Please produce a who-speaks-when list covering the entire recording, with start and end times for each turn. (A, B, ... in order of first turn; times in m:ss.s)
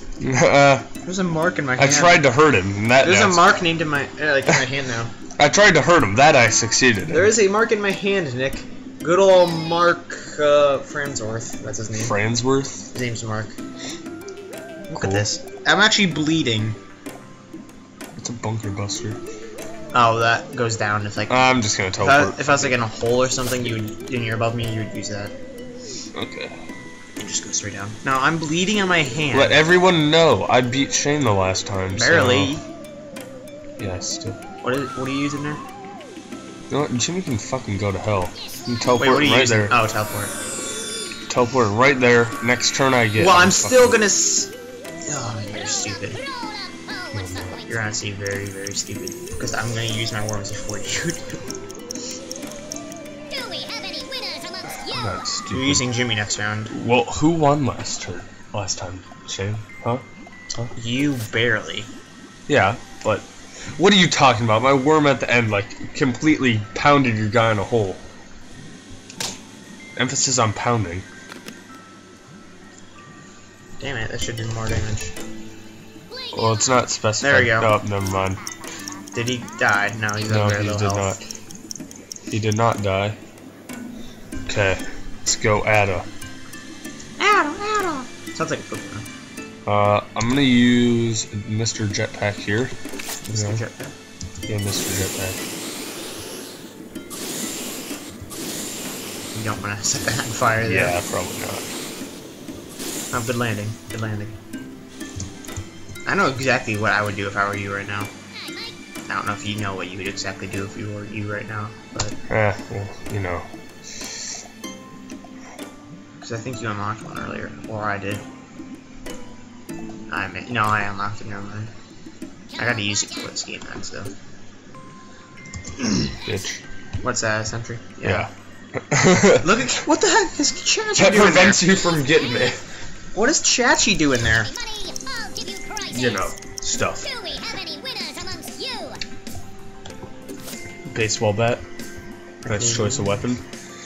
0:00.2-0:00.9 A
0:01.0-0:02.2 B
0:01.8-0:03.5 A
0:03.0-0:05.1 B
0:05.4-0:07.3 A
0:07.1-0:12.2 B
0:12.0-0:12.9 A
0:12.9-0:13.5 B
0:14.9-0:16.8 B
0:15.0-0:15.2 A
0:18.1-0:19.2 A
0:19.9-0:21.4 B
0:21.3-0:22.7 A
0:22.0-0:25.3 B
0:26.1-0:26.6 A
0:27.2-0:29.6 B
0:29.3-0:32.5 A
0:31.9-0:32.6 B
0:33.8-0:34.4 A
0:34.6-0:35.6 B
0:36.7-0:39.7 A
0:39.0-0:40.3 B
0:41.3-0:44.0 A
0:43.2-0:44.5 B
0:45.1-0:46.2 B
0:47.1-0:47.6 A
0:47.7-0:51.4 B
0:53.3-0:54.6 C
0:54.7-0:55.9 A
0:55.5-0:56.7 B
0:56.7-1:00.0 A
1:00.7-1:01.9 B
1:02.5-1:08.0 A
1:10.0-1:11.0 A
1:13.8-1:15.1 B
1:16.3-1:18.4 A
1:17.2-1:17.7 B
1:19.1-1:21.2 B
1:20.3-1:21.2 A
1:22.3-1:23.2 A
1:24.5-1:26.1 A
1:27.2-1:29.0 B
1:29.6-1:32.7 A
1:33.2-1:33.9 B
1:33.3-1:33.6 A
1:34.4-1:35.4 A
1:39.3-1:41.0 B
1:40.6-1:41.7 A
1:43.1-1:44.3 B
1:46.0-1:48.1 B
1:49.1-1:52.2 B
1:52.3-1:53.5 A
1:56.2-1:58.2 B
2:00.1-2:01.7 B
2:02.6-2:04.1 B
2:05.8-2:06.1 B
2:06.2-2:06.6 A
2:07.0-2:08.3 B
2:08.0-2:09.7 A
2:09.3-2:11.6 B
2:10.9-2:12.6 A
2:13.1-2:14.5 B
2:15.1-2:15.8 C
2:15.9-2:17.1 A
2:17.5-2:19.0 C
2:20.9-2:21.6 A
2:22.4-2:23.2 B
2:22.4-2:23.4 A